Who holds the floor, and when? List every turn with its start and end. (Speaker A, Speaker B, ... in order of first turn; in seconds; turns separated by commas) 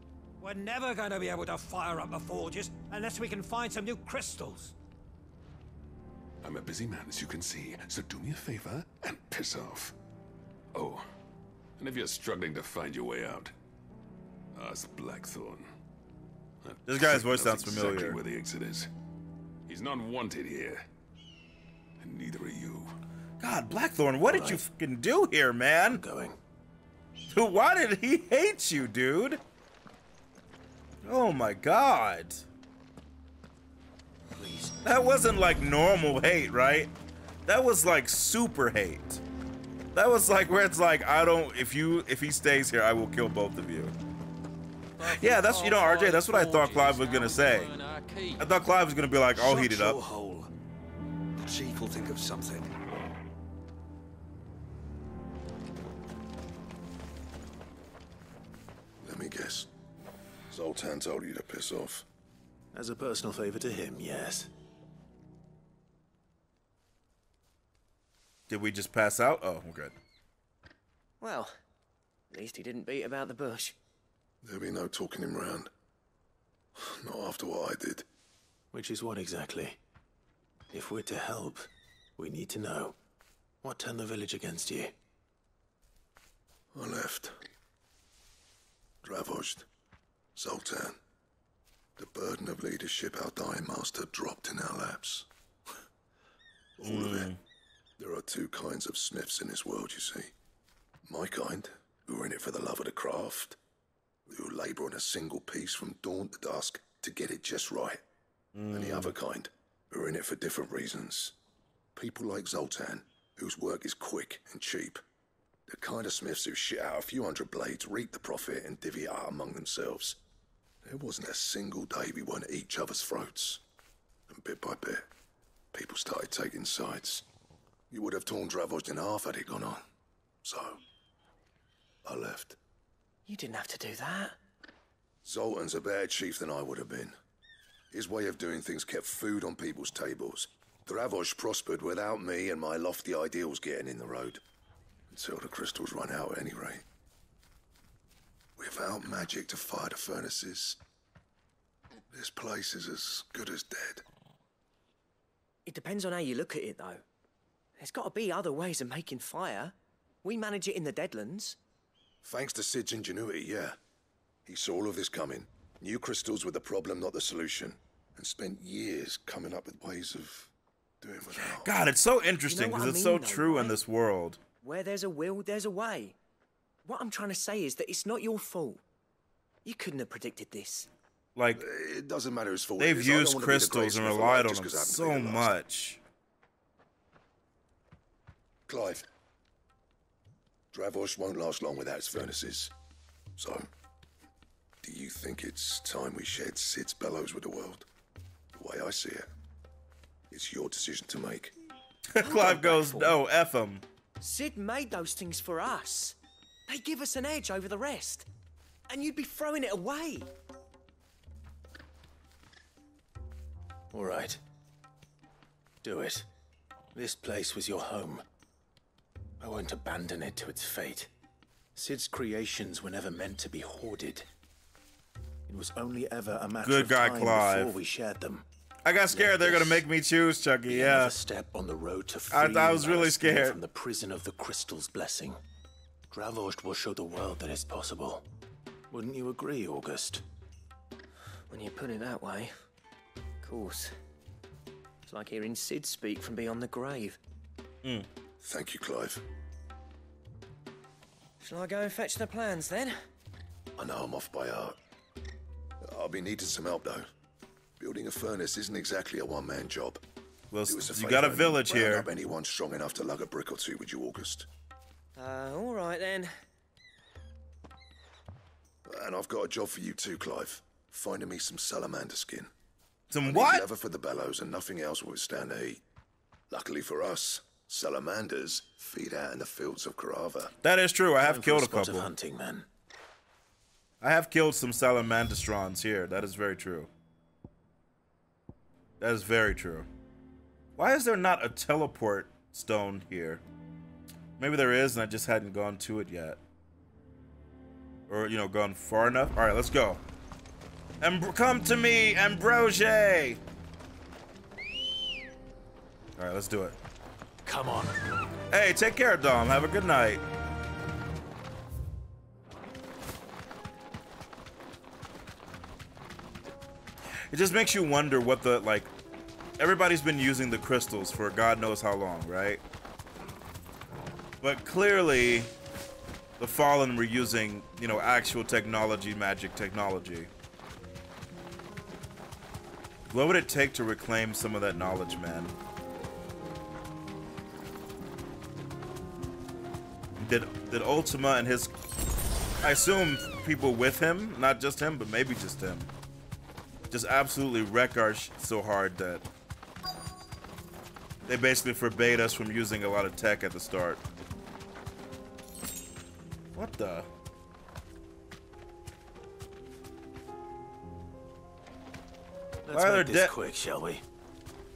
Speaker A: 4.2-4.7, Speaker B: 6.4-9.9, Speaker B: 10.7-11.1, Speaker B: 11.8-13.5, Speaker B: 14.5-15.7, Speaker B: 16.6-18.9, Speaker C: 16.9-18.2, Speaker B: 19.7-20.9, Speaker B: 22.0-22.9, Speaker C: 23.4-26.0, Speaker D: 24.3-24.6, Speaker D: 25.9-26.4, Speaker C: 27.3-29.4, Speaker C: 31.0-32.5, Speaker D: 34.4-34.8, Speaker C: 34.8-36.9, Speaker C: 37.5-39.2, Speaker C: 39.9-43.9, Speaker A: 45.0-48.5, Speaker C: 45.0-47.7, Speaker C: 48.4-50.0, Speaker E: 49.4-50.5, Speaker E: 51.5-52.7, Speaker F: 59.0-59.7, Speaker F: 60.5-62.0, Speaker D: 62.7-64.5, Speaker C: 68.5-69.9, Speaker G: 71.2-71.5, Speaker G: 72.3-73.8, Speaker F: 74.4-75.7, Speaker F: 76.8-78.0, Speaker D: 78.7-79.8, Speaker D: 80.7-83.0, Speaker D: 83.6-84.9, Speaker F: 86.7-87.4, Speaker F: 89.0-89.7, Speaker F: 90.4-91.0, Speaker F: 92.0-95.3, Speaker F: 96.8-97.3, Speaker C: 96.8-97.4, Speaker F: 98.0-100.3, Speaker F: 101.0-103.6, Speaker F: 104.3-108.0, Speaker C: 108.5-109.1, Speaker F: 108.7-111.3, Speaker F: 112.0-115.0, Speaker F: 115.7-120.2, Speaker F: 120.8-123.6, Speaker F: 124.3-125.1, Speaker F: 125.7-127.2, Speaker F: 127.9-129.8, Speaker F: 130.4-130.8, Speaker F: 132.1-132.6, Speaker G: 133.3-134.4, Speaker F: 135.2-137.1, Speaker F: 137.9-144.4, Speaker F: 145.1-146.8, Speaker F: 148.6-150.8, Speaker F: 152.1-154.0, Speaker G: 155.7-157.0, Speaker G: 157.8-159.7, Speaker G: 160.2-161.6, Speaker F: 162.2-163.8, Speaker F: 164.5-170.5, Speaker F: 171.0-171.7, Speaker C: 171.6-174.4, Speaker G: 172.4-173.8, Speaker G: 174.6-176.2, Speaker G: 176.8-178.8, Speaker G: 179.7-180.9, Speaker C: 181.4-181.6, Speaker F: 181.6-185.5, Speaker C: 182.8-186.0, Speaker F: 188.7-189.1, Speaker F: 190.7-192.7, Speaker F: 193.4-193.7, Speaker F: 194.8-197.9, Speaker F: 198.6-199.3, Speaker F: 200.3-201.5, Speaker C: 202.1-203.8, Speaker G: 202.2-203.2, Speaker G: 204.2-206.2, Speaker G: 206.7-208.3, Speaker G: 208.9-210.3, Speaker D: 213.9-214.4, Speaker D: 215.8-216.3, Speaker D: 216.9-218.2, Speaker D: 219.4-221.1, Speaker D: 221.8-224.3, Speaker D: 225.5-228.4, Speaker C: 226.6-227.7, Speaker C: 228.8-231.1, Speaker D: 229.1-229.8, Speaker D: 230.7-235.4, Speaker C: 232.3-233.6, Speaker D: 236.1-238.2, Speaker D: 238.9-240.2, Speaker G: 241.5-242.6, Speaker G: 243.4-243.9, Speaker G: 245.1-247.2, Speaker F: 248.4-249.2, Speaker G: 251.4-253.0, Speaker F: 253.8-254.8, Speaker F: 255.8-257.1, Speaker F: 257.8-260.0, Speaker C: 260.5-262.1, Speaker F: 260.7-264.5, Speaker G: 265.2-266.3, Speaker F: 268.9-272.5, Speaker C: 273.1-273.7, Speaker F: 273.2-275.8, Speaker F: 276.5-280.5, Speaker C: 280.6-282.1, Speaker D: 281.2-282.7, Speaker C: 284.0-286.9, Speaker C: 289.0-289.9, Speaker C: 290.8-293.4, Speaker C: 294.4-296.4, Speaker C: 298.1-300.0, Speaker C: 301.0-303.4, Speaker C: 306.2-306.8, Speaker D: 307.4-308.0, Speaker C: 308.5-310.2, Speaker C: 317.3-318.9, Speaker C: 319.6-322.6, Speaker C: 324.4-325.5, Speaker C: 326.4-330.3, Speaker C: 333.1-335.5, Speaker C: 340.2-341.7, Speaker C: 342.6-345.9, Speaker C: 346.9-349.2, Speaker C: 351.3-354.0, Speaker C: 356.6-357.1, Speaker D: 362.7-364.0, Speaker C: 362.7-363.3